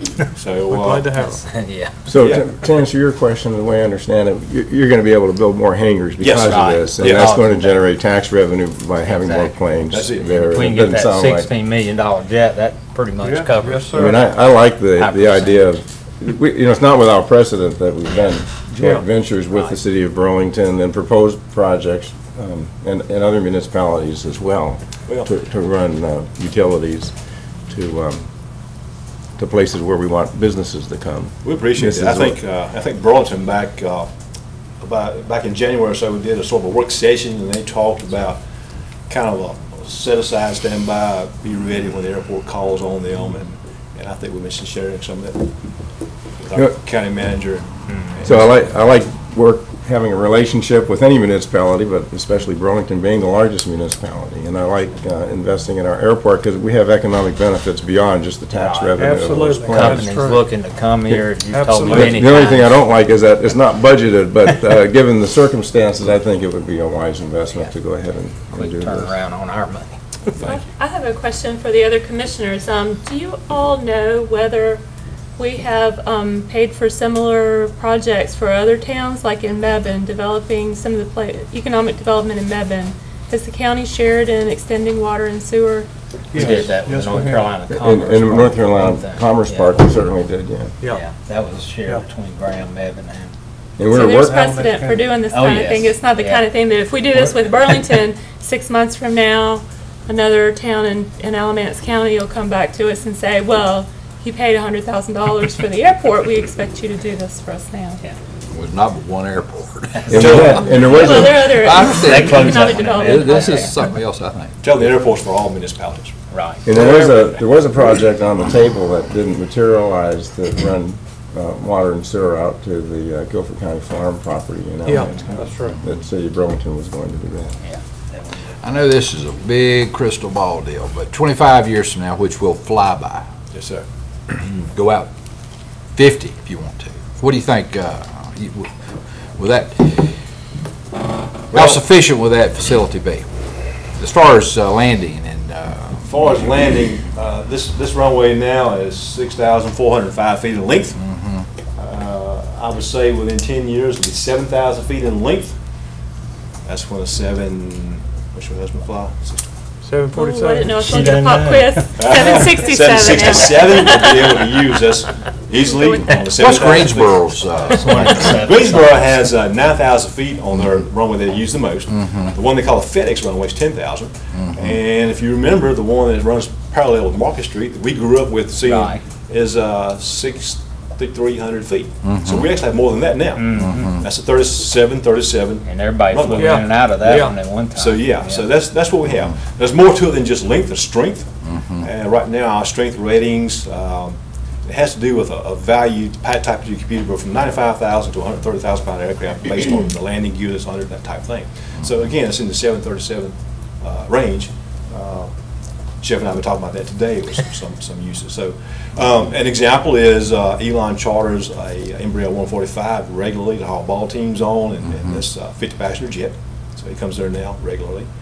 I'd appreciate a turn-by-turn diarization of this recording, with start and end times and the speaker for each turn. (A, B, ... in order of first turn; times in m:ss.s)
0:00.2-0:01.4 A
0:00.4-0:01.2 B
0:01.2-0:02.0 C
0:02.1-0:11.5 D
0:02.2-0:02.4 B
0:06.2-0:07.4 B
0:06.2-0:07.8 C
0:09.0-0:09.5 C
0:09.9-0:10.4 B
0:10.4-0:14.2 C
0:13.2-0:14.3 A
0:13.9-0:28.3 D
0:15.0-0:15.6 C
0:29.4-0:32.4 D
0:31.4-0:34.1 B
0:34.8-0:38.4 B
0:39.1-0:45.5 B
0:46.4-0:48.5 B
0:48.2-1:00.1 D
0:58.5-1:02.8 C
0:59.0-1:00.4 A
1:01.5-1:02.3 A
1:01.9-1:09.1 D
1:08.5-1:10.3 C
1:10.4-1:10.6 B
1:10.4-1:14.8 E
1:15.4-1:25.9 E
1:26.3-1:27.5 A
1:26.3-1:29.8 C
1:27.7-1:30.7 D
1:30.8-1:33.3 C
1:33.8-1:34.7 D
1:33.9-1:48.0 E
1:34.1-1:35.0 A
1:35.3-1:36.4 C
1:48.5-1:54.6 F
1:49.9-1:51.0 C
1:50.1-1:51.5 D
1:50.8-1:53.9 E
1:51.8-1:53.8 C
1:54.6-1:56.1 B
1:56.3-1:57.4 C
1:56.6-2:07.5 D
1:56.8-1:57.1 A
2:04.8-2:05.8 A
2:07.6-2:08.4 C
2:08.6-2:13.2 F
2:13.5-2:13.8 B
2:14.3-2:15.1 F
2:15.9-2:20.2 F
2:21.5-2:26.0 F
2:21.5-2:21.8 B
2:26.0-2:31.0 B
2:31.0-2:31.5 F
2:31.7-2:35.6 B
2:36.6-2:39.5 B
2:39.8-2:41.1 A
2:40.1-2:44.5 E
2:40.8-2:41.8 C
2:42.0-3:06.6 B
2:42.2-2:42.5 A
2:45.6-2:46.2 E
2:46.4-2:48.4 F
2:47.8-2:49.1 C
2:51.9-2:52.3 F
2:54.4-2:54.8 F
2:58.6-2:59.0 C
3:02.0-3:02.5 F
3:03.4-3:03.9 C
3:03.5-3:04.0 F
3:05.6-3:08.4 C
3:06.4-3:07.3 A
3:07.7-3:25.3 B
3:11.4-3:11.9 F
3:26.0-3:38.1 B